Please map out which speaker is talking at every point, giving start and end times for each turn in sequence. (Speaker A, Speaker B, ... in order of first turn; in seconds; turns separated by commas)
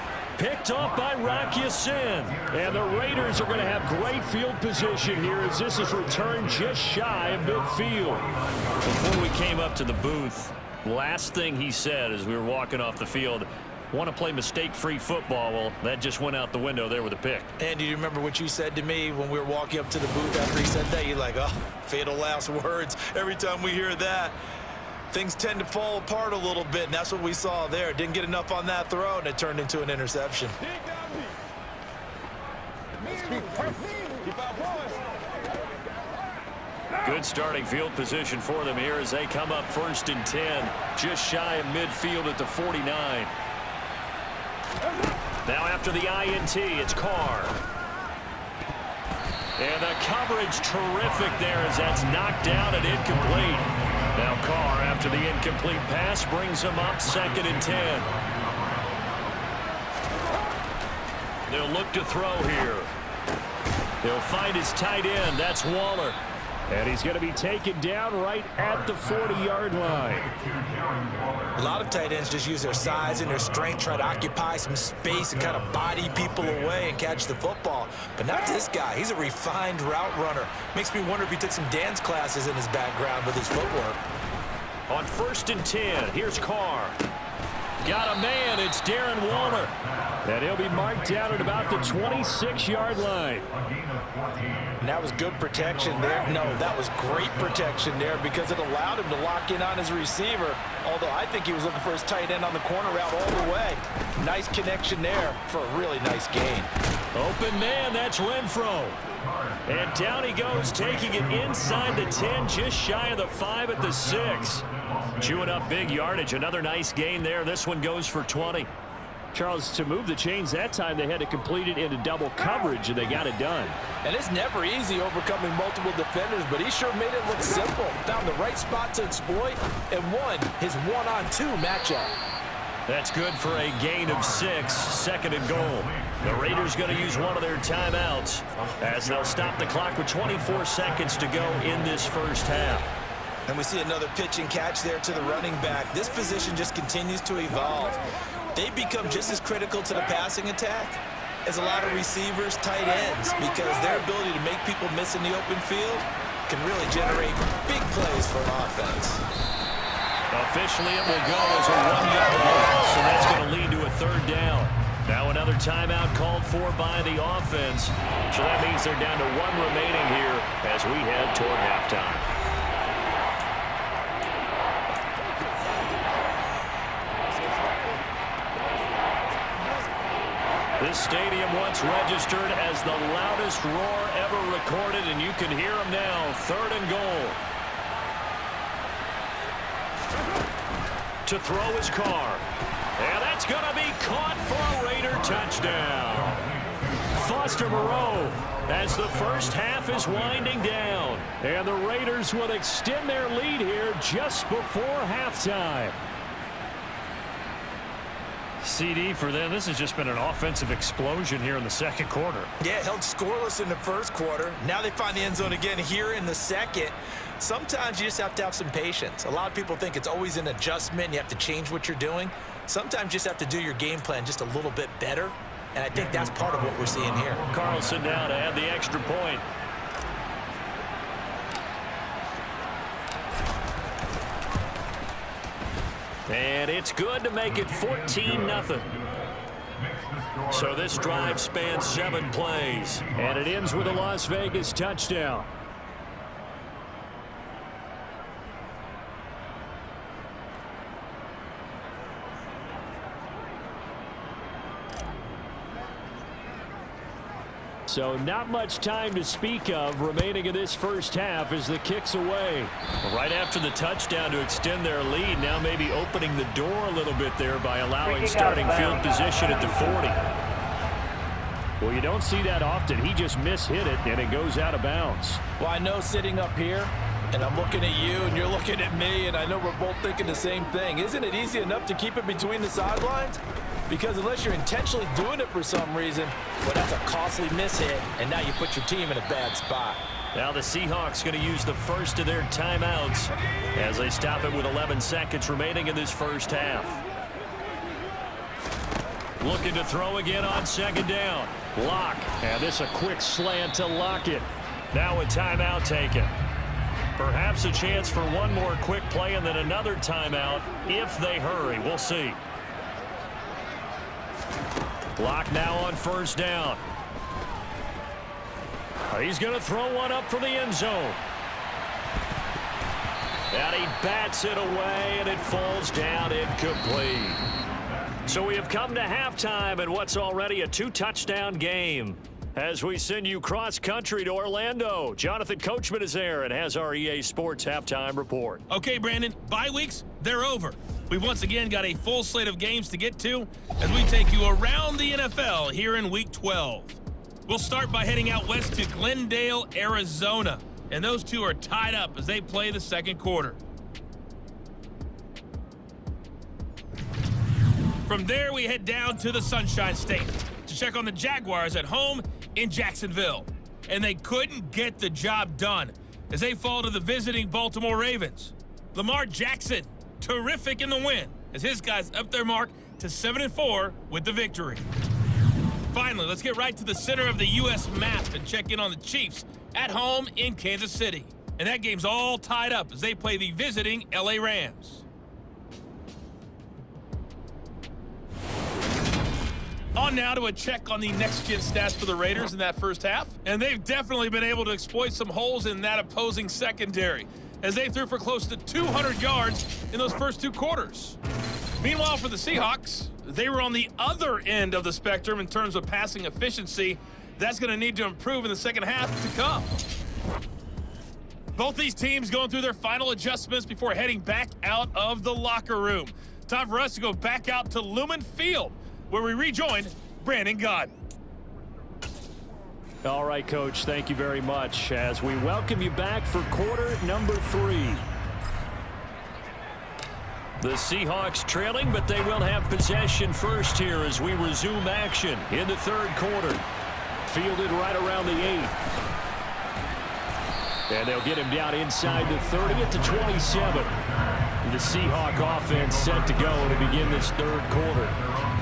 Speaker A: 0.4-8.3, Speaker A: 8.8-17.5, Speaker B: 17.6-24.4, Speaker B: 25.1-30.6, Speaker A: 37.0-43.3, Speaker A: 45.5-47.6, Speaker A: 49.6-58.1, Speaker A: 61.5-62.9, Speaker A: 64.0-70.3, Speaker B: 71.5-84.0, Speaker A: 84.9-87.0, Speaker A: 87.8-93.5, Speaker B: 94.8-106.7, Speaker A: 107.1-109.0, Speaker A: 109.7-118.7, Speaker A: 119.3-123.8, Speaker B: 124.0-132.1, Speaker A: 132.9-142.9, Speaker B: 143.5-148.0, Speaker B: 148.5-159.2, Speaker A: 160.3-172.3, Speaker A: 180.8-187.4, Speaker A: 191.2-192.4, Speaker A: 193.0-196.5, Speaker A: 197.1-206.0, Speaker A: 208.6-212.5, Speaker B: 212.6-227.4, Speaker A: 227.5-229.5, Speaker A: 236.3-239.0, Speaker A: 240.4-245.5, Speaker A: 257.9-270.2, Speaker A: 271.8-275.4, Speaker B: 275.6-290.0, Speaker A: 290.3-297.0, Speaker A: 299.4-306.3, Speaker A: 307.1-312.4, Speaker A: 315.2-316.8, Speaker A: 319.1-321.2, Speaker A: 323.5-327.4, Speaker A: 328.2-338.6, Speaker C: 338.7-353.6, Speaker C: 358.1-374.9, Speaker C: 375.9-385.0, Speaker C: 389.9-401.2, Speaker C: 401.8-409.7, Speaker C: 411.5-420.9, Speaker A: 423.0-428.0, Speaker A: 430.6-436.6, Speaker A: 437.3-438.7, Speaker A: 440.9-444.0, Speaker A: 444.6-448.2